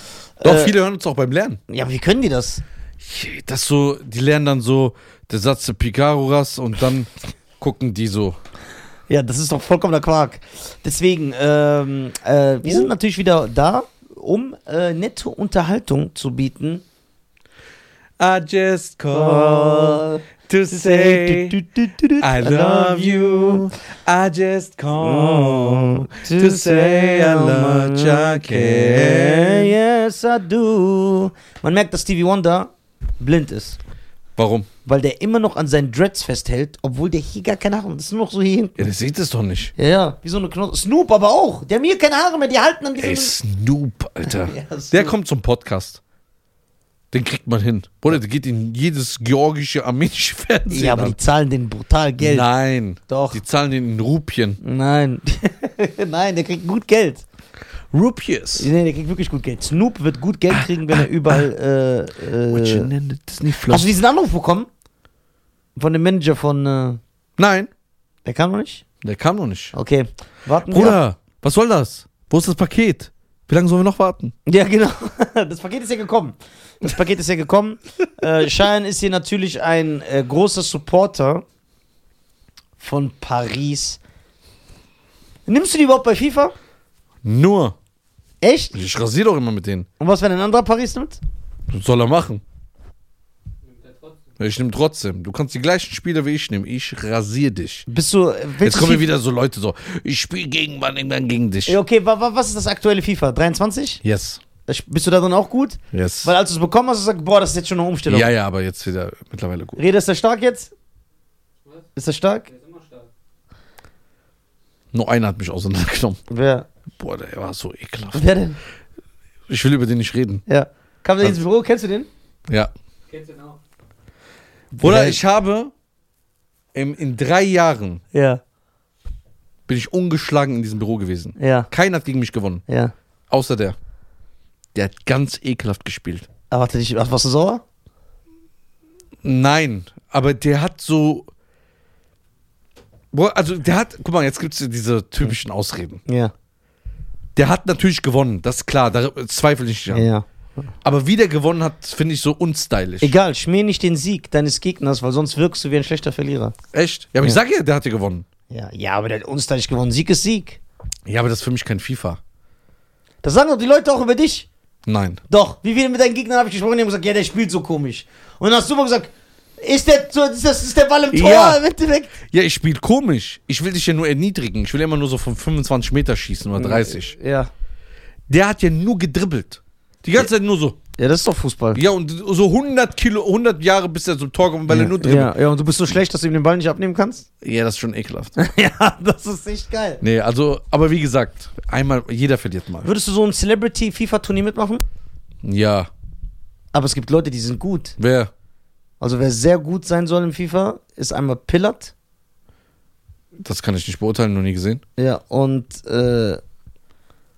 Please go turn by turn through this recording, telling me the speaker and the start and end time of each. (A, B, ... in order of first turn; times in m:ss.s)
0:00.4-0:00.7 A
0:00.4-0:01.6 B
0:01.7-0:02.6 A
0:03.0-0:08.4 B
0:09.1-0:16.8 A
0:12.6-0:12.9 B
0:18.2-0:21.6 B
0:19.1-0:23.7 A
0:22.2-0:29.7 B
0:25.0-0:33.8 A
0:34.4-0:34.7 B
0:34.8-0:38.8 A
0:38.8-0:39.7 B
0:39.8-0:43.4 A
0:43.0-0:46.0 B
0:44.3-0:45.2 A
0:47.1-0:51.2 B
0:50.7-0:52.5 A
0:52.2-0:54.6 B
0:53.1-0:53.4 A
0:54.6-0:57.2 A
0:57.9-0:58.7 B
0:58.6-1:02.9 A
1:00.5-1:01.3 B
1:02.5-1:03.9 B
1:03.7-1:04.7 A
1:05.8-1:07.0 A
1:07.4-1:07.7 B
1:08.2-1:08.8 A
1:09.0-1:09.7 B
1:09.7-1:11.0 A
1:10.7-1:14.3 B
1:14.4-1:21.4 A
1:22.8-1:24.0 A
1:25.4-1:26.6 A
1:27.2-1:27.8 B
1:28.4-1:28.8 A
1:28.7-1:29.9 B
1:30.0-1:31.2 A
1:31.7-1:32.4 B
1:33.6-1:34.3 C
1:34.4-1:37.9 B
1:37.9-1:39.1 A
1:38.6-1:41.8 B
1:41.7-1:44.0 A
1:44.0-1:44.4 B
1:44.7-1:48.3 A
1:45.9-1:46.3 B
1:48.1-1:49.8 B
1:49.8-1:50.7 A
1:51.6-1:51.9 C
1:52.0-1:52.4 A
1:52.4-1:53.1 C
1:54.9-1:56.2 B
1:56.3-1:56.7 A
1:57.0-1:58.3 B
1:58.1-1:58.6 A
1:59.5-2:00.4 B
2:00.5-2:02.1 A
2:03.1-2:03.6 C
2:04.8-2:05.2 A
2:04.8-2:05.7 B
2:06.7-2:08.0 B
2:08.1-2:08.4 A
2:09.7-2:12.6 B
2:11.4-2:11.7 A
2:12.7-2:12.9 A
2:13.3-2:13.8 B
2:14.8-2:16.3 B
2:16.5-2:17.6 A
2:19.2-2:21.3 B
2:23.1-2:26.0 B
2:26.1-2:26.3 A
2:27.4-2:30.1 B
2:29.9-2:30.7 A
2:30.8-2:33.1 B
2:33.0-2:36.5 A
2:36.7-2:38.2 B
2:38.5-2:40.6 A
2:41.1-2:42.2 B
2:43.2-2:44.5 A
2:44.8-2:45.2 B
2:45.3-2:52.1 A
2:51.1-2:51.6 B
2:52.2-2:57.1 B
2:56.5-2:57.5 A
2:58.3-3:00.8 B
3:01.0-3:01.8 A
3:01.8-3:05.3 B
3:04.7-3:07.2 A
3:07.4-3:08.3 B
3:08.4-3:10.0 A
3:10.0-3:12.9 B
3:12.8-3:14.8 A
3:15.4-3:15.9 B
3:16.7-3:18.0 A
3:18.0-3:18.3 B
3:19.0-3:21.9 A
3:23.4-3:24.8 B
3:25.0-3:26.4 A